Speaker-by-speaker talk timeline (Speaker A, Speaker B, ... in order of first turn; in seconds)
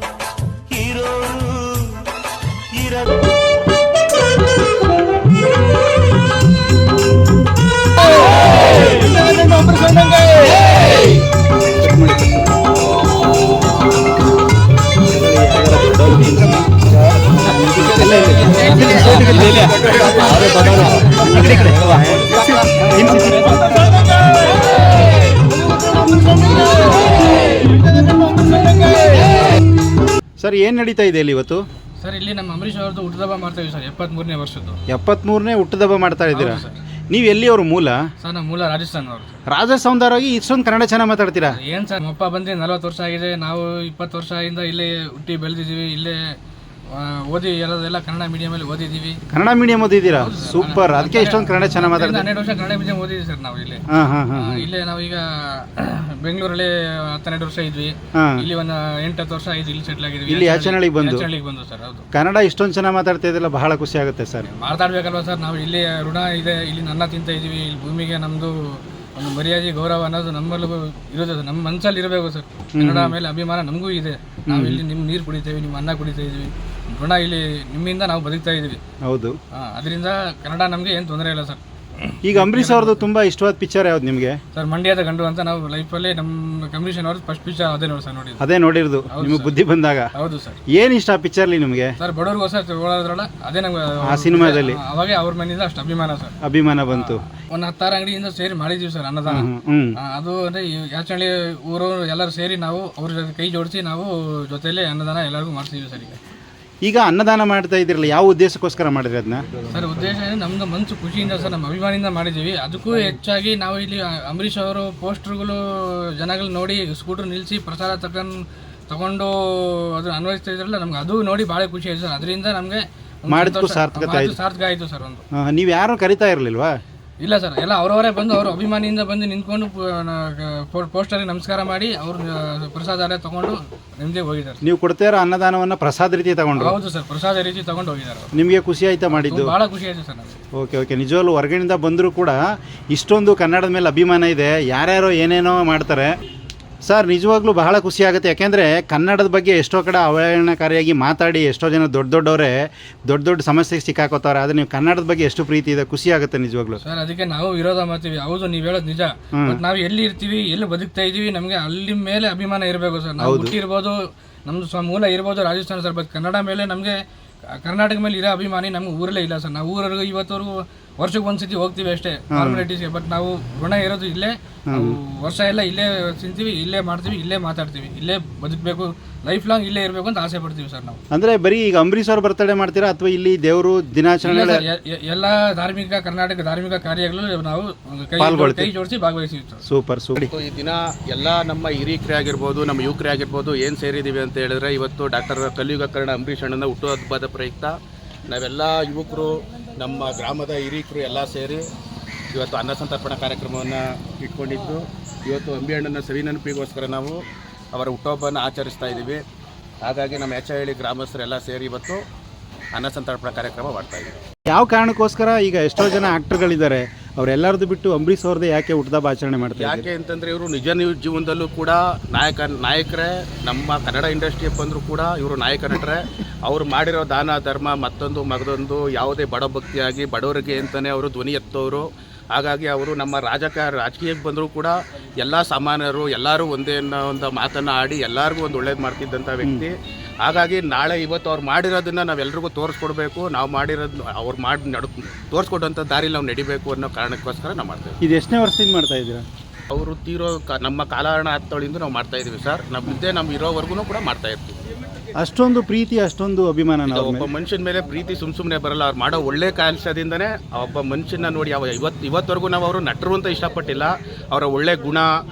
Speaker A: 0.7-1.9, 2.8-3.1, 9.1-9.8, 18.1-22.7, 23.3-24.6, 25.5-29.3, 190.2-197.7, 198.3-201.6, 202.3-207.2, 207.7-209.2, 209.8-212.0, 212.7-214.1, 219.6-248.0, 249.7-254.6, 256.9-265.1
Speaker B: 9.6-10.0, 18.6-20.2, 32.0-34.8, 36.3-36.8, 38.2-39.4, 41.5-46.4, 46.9-49.2, 50.1-62.0, 64.4-78.8, 79.5-83.0, 84.5-88.4, 89.1-89.5, 90.1-90.6, 92.0-96.3, 96.9-99.5, 100.0-106.2, 109.7-125.2, 127.2-134.6, 136.6-138.3, 139.1-140.4, 156.8-181.0, 184.2-189.6
Speaker C: 11.7-12.4, 15.1-16.5, 17.4-23.6, 30.4-31.6, 34.9-38.0, 39.5-41.6, 49.3-52.3, 53.9-54.7, 58.2-58.5, 60.3-61.3, 62.1-64.5, 72.8-73.2, 74.5-74.8, 79.0-79.3, 82.2-84.4, 88.4-90.1, 90.8-91.9, 94.1-94.8, 96.4-97.2, 99.3-100.0, 106.8-109.6, 123.3-124.4, 125.3-126.8, 134.6-136.8, 138.3-139.5, 140.6-142.4, 142.9-146.1, 146.8-152.5, 153.1-156.8, 159.3-159.6, 163.2-163.6, 172.3-172.6, 174.7-175.0, 181.1-184.6, 188.2-188.7, 189.7-190.3, 214.5-219.9, 248.0-249.2, 255.2-257.3